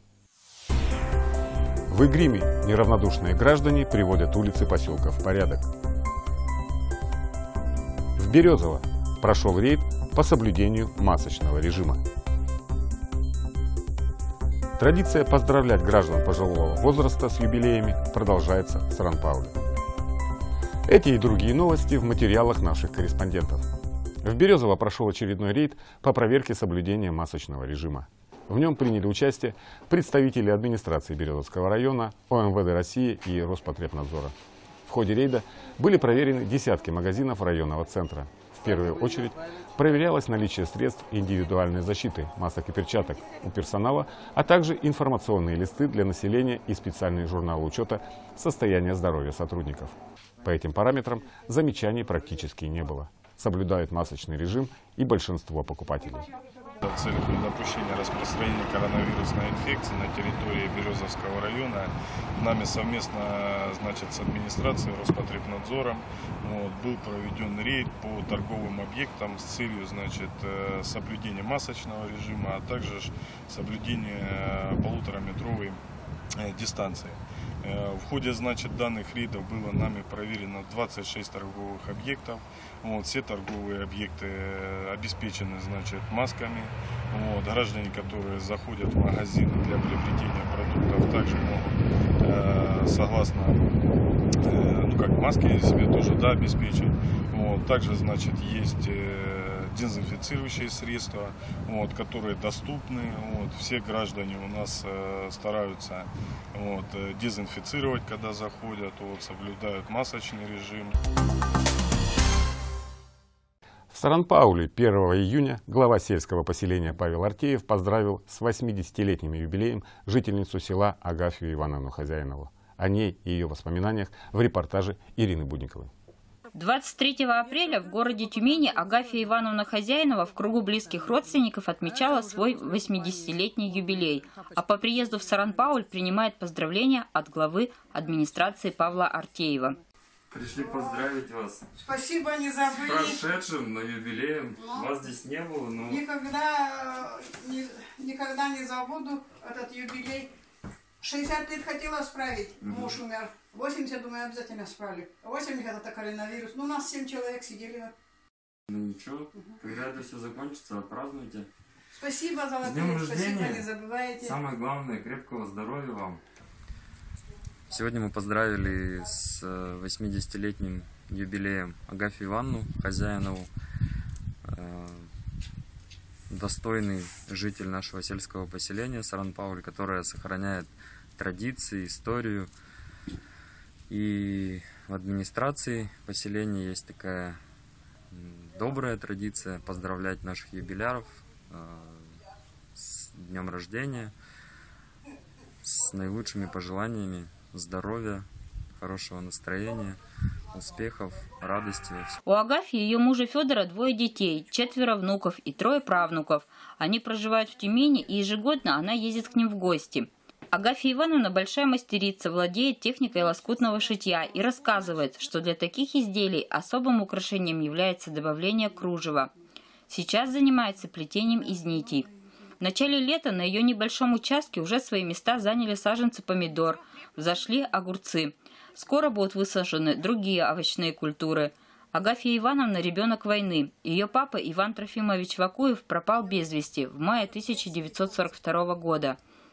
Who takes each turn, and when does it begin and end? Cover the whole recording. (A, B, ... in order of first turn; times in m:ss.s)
0:01.9-0:05.7 A
0:08.2-0:12.0 A
0:14.8-0:19.6 A
0:20.9-0:23.6 A
0:24.2-0:34.3 A
0:34.9-0:56.3 A
0:56.9-1:15.8 B
1:16.4-1:17.1 B
1:17.6-1:33.5 B
1:34.5-1:46.0 B
1:46.6-1:48.6 B
1:48.5-1:50.9 C
1:49.3-1:50.2 B
1:53.9-2:05.9 A
2:06.5-2:19.8 D
2:08.1-2:08.9 E
2:11.0-2:11.3 E
2:11.8-2:15.8 E
2:20.3-2:21.6 C
2:20.6-2:21.1 E
2:21.8-2:23.4 E
2:22.8-2:26.0 C
2:24.6-2:25.0 E
2:25.8-2:30.3 E
2:31.0-2:37.9 E
2:32.6-2:32.9 C
2:38.7-2:41.5 C
2:42.0-2:44.4 E
2:42.6-2:43.6 C
2:43.0-2:43.5 B
2:44.2-2:46.2 C
2:47.7-2:53.5 C
2:54.6-2:55.0 C
2:56.3-3:00.7 C
3:01.2-3:02.5 C
3:03.9-3:07.4 C
3:08.1-3:12.0 C
3:12.8-3:14.1 C
3:15.6-3:18.2 C
3:18.8-3:20.0 C
3:20.6-3:22.1 C
3:22.2-3:39.3 D
3:39.9-3:59.2 D